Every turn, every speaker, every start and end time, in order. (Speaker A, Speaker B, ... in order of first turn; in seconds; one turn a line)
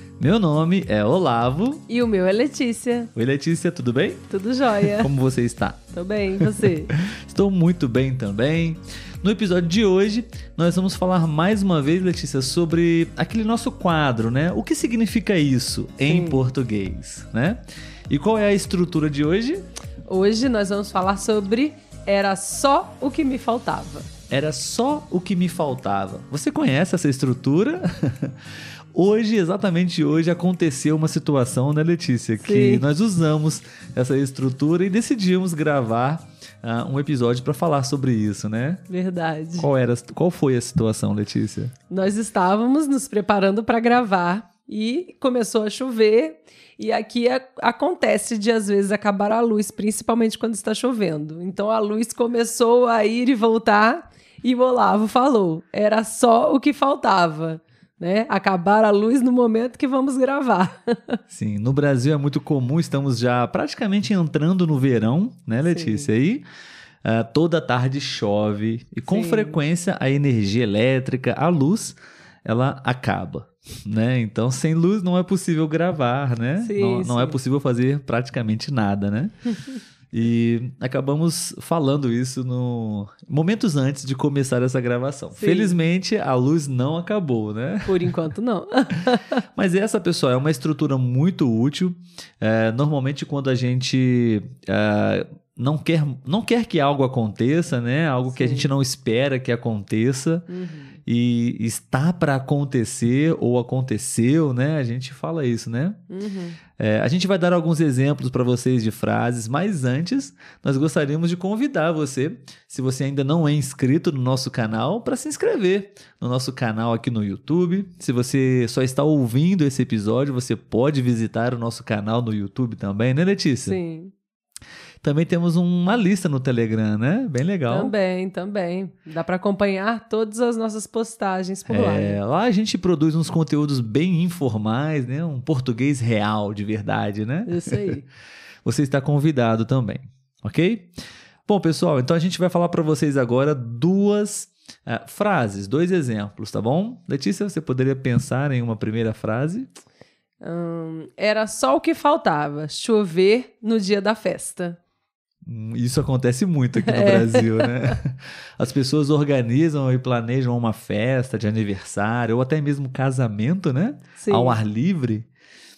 Speaker A: 0.2-1.8
Speaker B: 1.9-3.1
Speaker A: 3.1-4.3
Speaker B: 4.3-5.1
Speaker A: 4.8-5.9
Speaker B: 5.9-6.9
Speaker A: 6.4-19.6
Speaker B: 16.1-16.4
Speaker B: 20.1-24.1
Speaker A: 24.3-28.4
Speaker A: 28.9-38.8
Speaker B: 32.4-32.8
Speaker B: 38.9-39.7
Speaker A: 39.6-41.7
Speaker B: 41.9-61.2
Speaker A: 61.3-66.4
Speaker B: 65.6-66.1
Speaker A: 67.0-79.3
Speaker B: 69.1-69.6
Speaker B: 76.6-77.4
Speaker A: 80.1-88.1
Speaker B: 85.3-85.8
Speaker B: 87.8-89.4
Speaker A: 89.5-100.5
Speaker B: 98.2-98.7
Speaker B: 100.5-101.0
Speaker A: 101.0-106.0
Speaker B: 106.1-106.6
Speaker A: 106.8-123.8
Speaker B: 123.6-124.1
Speaker A: 125.0-127.9
Speaker B: 127.7-132.2
Speaker A: 131.7-138.0
Speaker B: 137.4-138.0
Speaker A: 138.6-140.9
Speaker A: 141.4-149.7
Speaker B: 150.4-154.8
Speaker A: 155.4-165.3
Speaker B: 156.8-157.9
Speaker B: 164.2-164.6